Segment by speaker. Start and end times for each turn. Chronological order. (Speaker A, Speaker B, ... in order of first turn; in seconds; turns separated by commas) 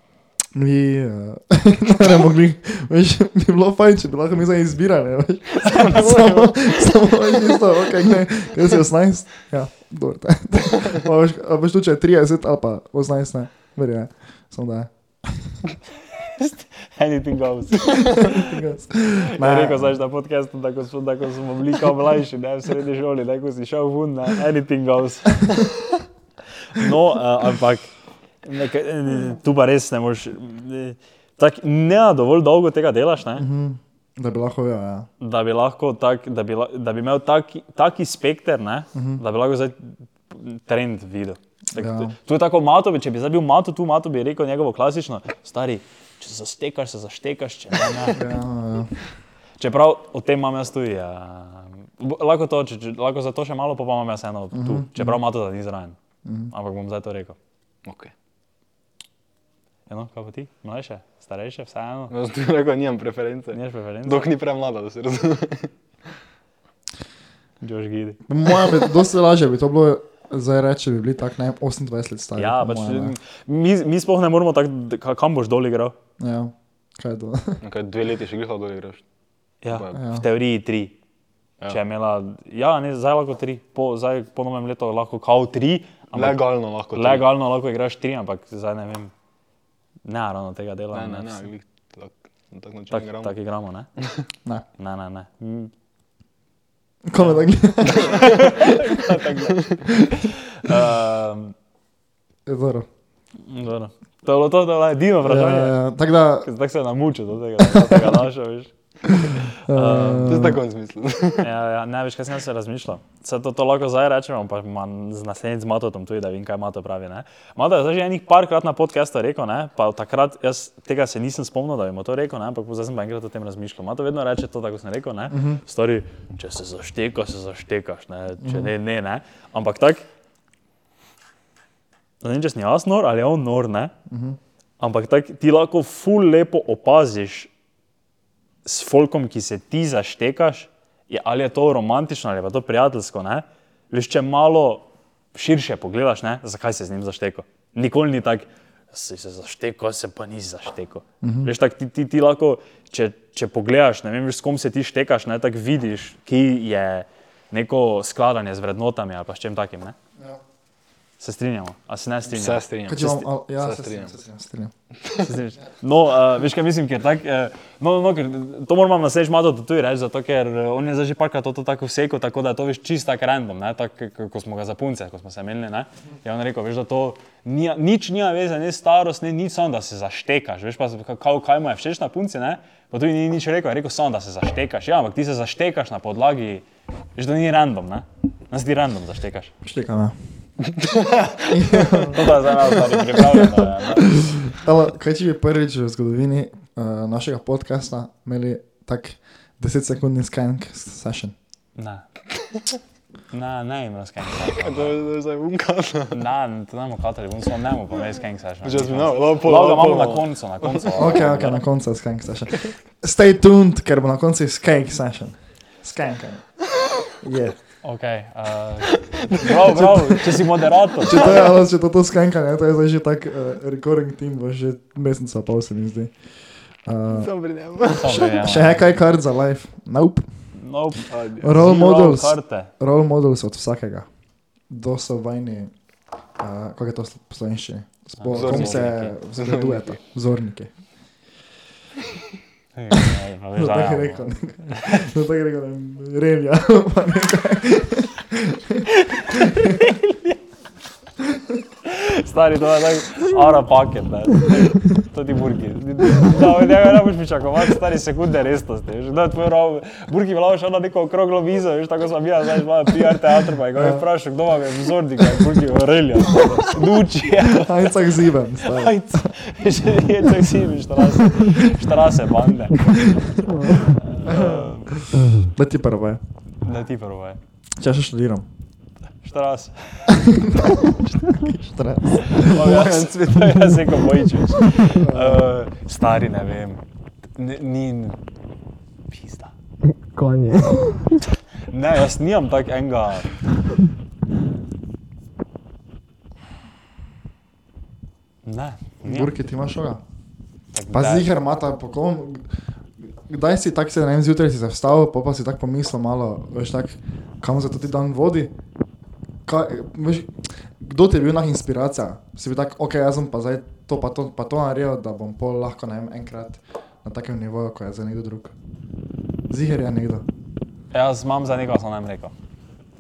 Speaker A: 0.5-15.6, Speaker B: 5.6-7.6, Speaker C: 16.2-18.6, Speaker A: 18.2-19.9, Speaker C: 19.2-25.5, Speaker C: 26.7-27.9, Speaker C: 28.4-33.5, Speaker A: 33.4-35.1, Speaker C: 35.2-48.2, Speaker A: 39.0-39.2, Speaker A: 41.7-42.1, Speaker A: 48.1-49.0, Speaker C: 49.6-56.0, Speaker A: 54.5-55.2, Speaker A: 56.2-56.5, Speaker C: 56.5-57.4, Speaker B: 57.9-58.1, Speaker C: 59.9-62.1, Speaker B: 62.1-65.7, Speaker C: 63.5-64.3, Speaker C: 67.6-68.2, Speaker A: 68.3-73.2, Speaker C: 72.4-76.0, Speaker A: 76.2-77.6, Speaker B: 77.6-79.0, Speaker C: 79.6-81.0, Speaker B: 79.7-80.0, Speaker A: 79.9-80.2, Speaker C: 81.7-86.4, Speaker B: 86.1-87.3, Speaker C: 86.9-89.1, Speaker C: 90.0-91.5, Speaker B: 90.9-93.3, Speaker C: 92.9-93.9, Speaker C: 94.8-95.7, Speaker A: 97.1-98.2, Speaker C: 97.2-101.5, Speaker A: 102.5-102.9, Speaker C: 103.4-105.8, Speaker A: 105.2-106.5, Speaker C: 106.4-110.5, Speaker A: 107.8-108.1, Speaker A: 109.7-110.6, Speaker B: 110.3-111.5, Speaker C: 111.4-130.1, Speaker A: 125.3-125.6, Speaker A: 128.4-128.7, Speaker C: 132.2-133.9, Speaker A: 134.1-134.4, Speaker C: 134.8-137.5, Speaker C: 138.6-160.0, Speaker A: 151.2-151.5, Speaker C: 161.2-162.7, Speaker B: 162.3-164.1, Speaker A: 162.9-164.7, Speaker C: 165.2-189.5, Speaker A: 189.6-190.2, Speaker B: 190.7-192.0, Speaker A: 191.5-192.5, Speaker C: 192.0-194.2, Speaker A: 193.1-201.3, Speaker C: 201.8-202.1, Speaker C: 203.3-205.0, Speaker B: 204.4-206.2, Speaker C: 206.1-211.6, Speaker B: 208.6-211.1, Speaker A: 211.0-216.5, Speaker A: 217.2-217.6, Speaker C: 217.8-221.5, Speaker B: 218.9-220.5, Speaker A: 221.1-226.1, Speaker B: 221.1-221.5, Speaker A: 226.9-227.3, Speaker B: 227.1-228.4, Speaker C: 227.9-228.9, Speaker A: 228.3-230.3, Speaker C: 230.6-232.7, Speaker B: 231.1-231.7, Speaker A: 231.4-234.1, Speaker A: 234.7-235.7, Speaker A: 236.4-240.7, Speaker C: 238.2-239.2, Speaker B: 238.3-240.0, Speaker C: 242.8-245.1, Speaker A: 243.6-249.9, Speaker C: 249.0-250.4, Speaker C: 251.8-275.0, Speaker A: 263.8-264.1, Speaker A: 267.4-269.3, Speaker A: 274.2-276.2, Speaker C: 276.6-277.4, Speaker A: 277.8-278.5, Speaker C: 279.2-280.2, Speaker A: 280.1-282.6, Speaker C: 282.2-286.8, Speaker B: 282.4-284.1, Speaker A: 284.9-285.5, Speaker C: 287.4-288.2, Speaker C: 289.1-289.5, Speaker B: 290.1-290.9, Speaker C: 291.7-293.3, Speaker C: 298.4-299.3, Speaker A: 299.0-300.0, Speaker C: 300.7-301.3, Speaker A: 300.9-302.5, Speaker A: 303.0-308.5, Speaker A: 309.5-318.5, Speaker A: 319.5-320.2, Speaker C: 320.9-322.3